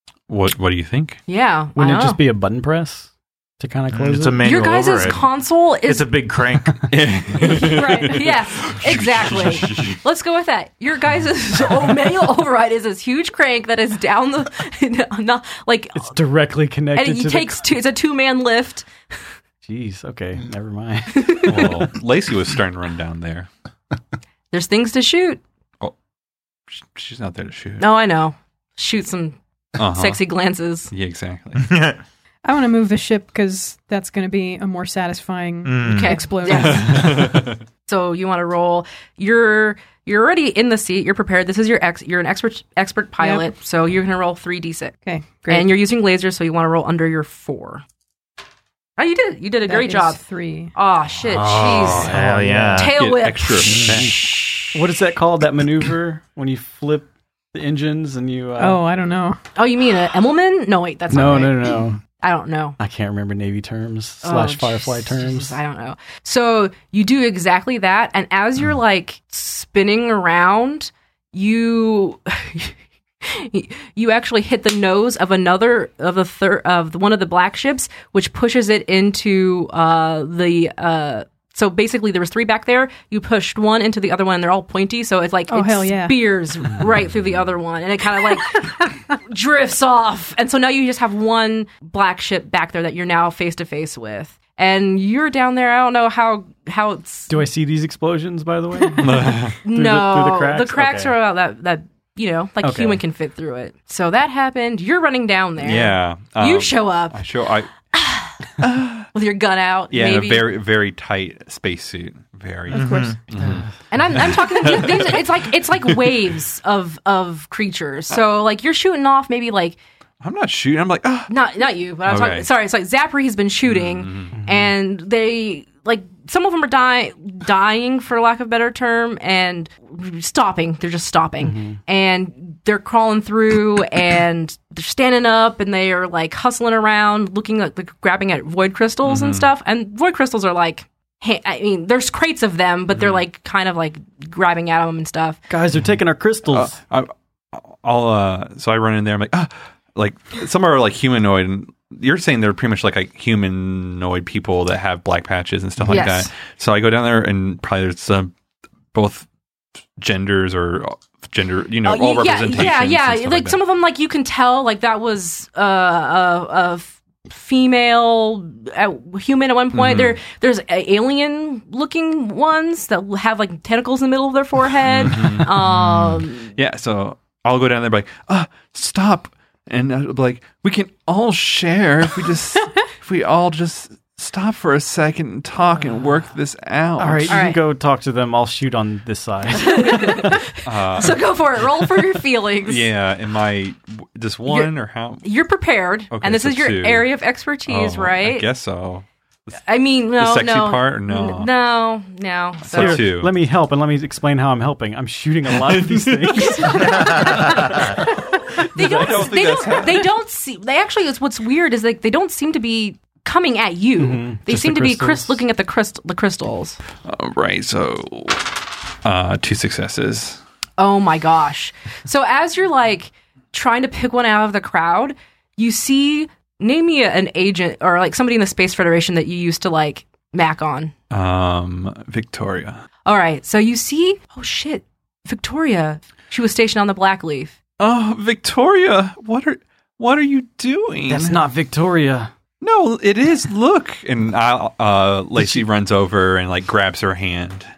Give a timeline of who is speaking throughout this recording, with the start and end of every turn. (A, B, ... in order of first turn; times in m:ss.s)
0:00.3-0:01.2 A
0:01.3-0:02.2 B
0:01.8-0:04.4 C
0:03.9-0:05.3 D
0:04.4-0:06.1 B
0:05.8-0:06.8 D
0:06.9-0:10.0 A
0:07.4-0:16.1 B
0:07.4-0:08.2 E
0:16.0-0:17.6 C
0:16.9-0:18.9 B
0:19.6-0:21.9 C
0:21.1-0:21.7 B
0:21.4-0:23.5 A
0:24.5-0:25.4 B
0:26.7-0:27.9 A
0:27.8-0:29.4 B
0:29.8-0:30.2 A
0:29.9-0:30.9 B
0:30.9-0:31.6 A
0:31.6-0:32.0 D
0:32.4-0:37.3 E
0:35.6-0:36.3 D
0:35.8-0:45.0 B
0:36.5-0:37.6 A
0:43.2-0:43.5 E
0:45.0-0:45.7 E
0:45.5-0:47.8 B
0:49.0-0:50.2 B
0:49.7-0:50.7 E
0:50.7-0:52.1 B
0:51.2-0:53.0 D
0:51.8-0:52.3 A
0:52.0-0:52.9 C
0:52.7-0:54.7 B
0:52.8-0:54.2 A
0:54.7-0:58.8 C
0:58.6-0:59.4 E
0:59.6-1:02.8 B
1:01.1-1:02.0 C
1:02.8-1:05.6 C
1:04.2-1:37.4 B
1:25.5-1:26.2 E
1:37.3-1:41.1 C
1:39.0-1:39.6 A
1:39.6-1:47.3 B
1:42.6-1:43.0 C
1:45.6-1:47.7 A
1:47.9-1:48.3 B
1:48.6-1:49.1 A
1:49.1-1:50.5 B
1:49.9-1:55.4 A
1:52.7-1:53.1 E
1:52.8-1:53.2 D
1:53.9-1:59.8 B
1:55.9-1:56.1 A
2:00.2-2:01.3 A
2:01.3-2:25.4 B
2:02.0-2:02.5 A
2:03.6-2:04.3 A
2:04.3-2:04.7 C
2:11.4-2:11.8 C
2:19.0-2:19.5 A
2:25.5-2:26.8 C
2:26.5-2:38.3 A
2:35.9-2:36.3 B
2:38.9-2:39.3 A
2:40.0-2:43.6 A
2:41.8-2:56.5 B
2:49.7-2:50.2 A
2:54.8-3:07.4 A
3:07.0-3:10.4 C
3:07.3-3:07.6 B
3:09.6-3:12.8 B
3:10.6-3:11.3 A
3:12.6-3:15.2 A
3:14.5-3:18.4 B
3:16.1-3:17.1 A
3:17.6-3:19.1 A
3:19.7-3:23.0 B
3:20.2-3:21.5 A
3:22.6-3:23.3 A
3:22.7-3:27.8 C
3:25.5-3:26.9 A
3:26.4-3:27.4 B
3:26.9-3:27.9 D
3:27.4-3:30.2 A
3:28.7-3:36.8 B
3:28.8-3:29.8 C
3:34.0-3:35.4 C
3:37.0-3:40.4 A
3:40.8-3:50.9 B
3:51.1-3:52.8 A
3:53.0-3:57.6 B
3:57.8-4:01.4 A
4:01.1-4:02.3 C
4:02.6-4:07.7 A